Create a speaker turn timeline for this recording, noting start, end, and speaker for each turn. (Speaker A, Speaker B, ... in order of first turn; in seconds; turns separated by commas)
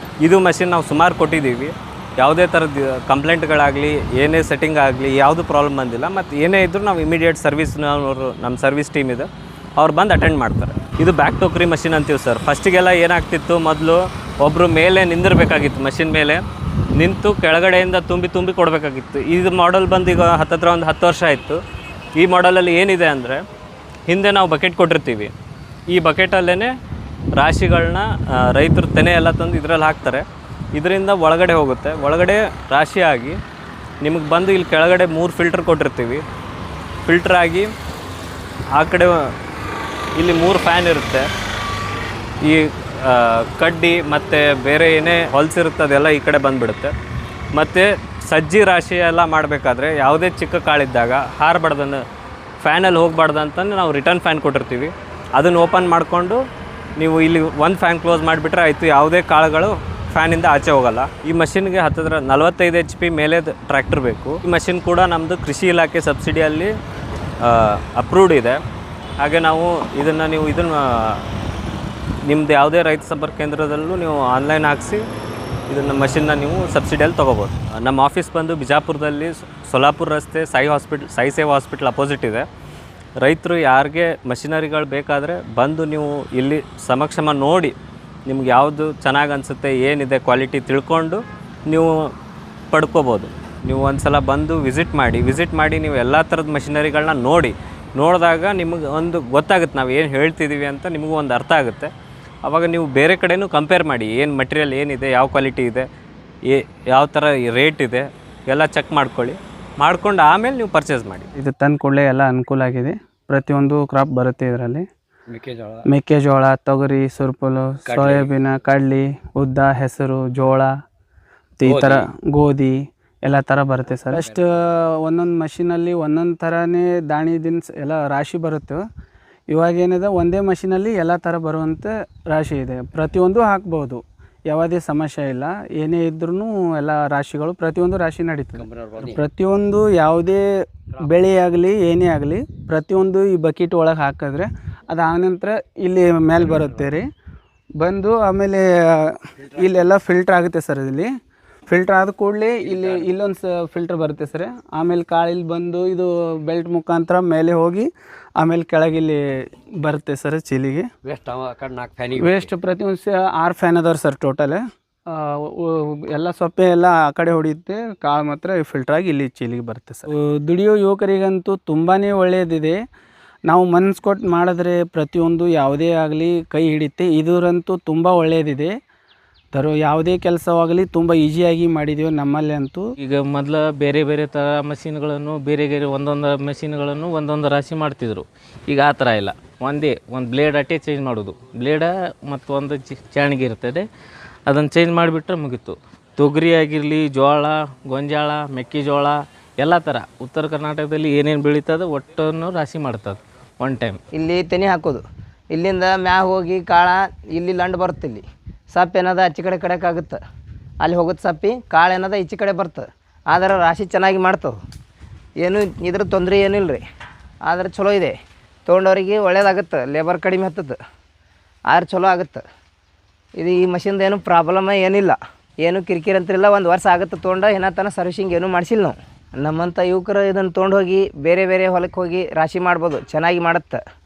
Speaker A: 0.2-16.4, Speaker A: 17.0-21.6, Speaker A: 22.2-23.4, Speaker A: 24.1-25.3, Speaker A: 25.9-26.7, Speaker A: 27.4-33.4, Speaker A: 34.0-36.2, Speaker A: 37.0-37.7, Speaker A: 38.7-39.3, Speaker A: 40.1-41.3, Speaker A: 42.4-46.9, Speaker A: 47.5-52.0, Speaker A: 52.6-56.4, Speaker A: 57.0-66.7, Speaker A: 67.4-68.6, Speaker A: 69.2-71.3, Speaker A: 72.2-75.0, Speaker A: 75.7-82.5, Speaker A: 83.2-87.7, Speaker A: 88.3-91.9, Speaker A: 92.7-101.9, Speaker A: 102.4-105.9, Speaker A: 106.5-111.3, Speaker B: 111.4-114.8, Speaker C: 115.3-115.8, Speaker B: 115.8-120.7, Speaker C: 117.8-118.3, Speaker B: 121.6-128.8, Speaker C: 121.6-122.0, Speaker C: 123.9-124.6, Speaker B: 129.5-140.5, Speaker C: 138.6-139.2, Speaker B: 141.0-147.1, Speaker B: 147.8-151.1, Speaker B: 151.7-159.2, Speaker C: 152.7-153.1, Speaker B: 159.8-160.9, Speaker C: 161.0-162.5, Speaker B: 162.2-172.8, Speaker B: 173.5-178.7, Speaker B: 179.5-182.9, Speaker D: 183.0-193.9, Speaker D: 194.5-204.0, Speaker E: 204.1-210.2, Speaker E: 210.8-214.5, Speaker E: 215.4-216.8, Speaker E: 217.5-218.1, Speaker E: 218.7-220.8, Speaker E: 221.7-222.4, Speaker E: 223.4-233.8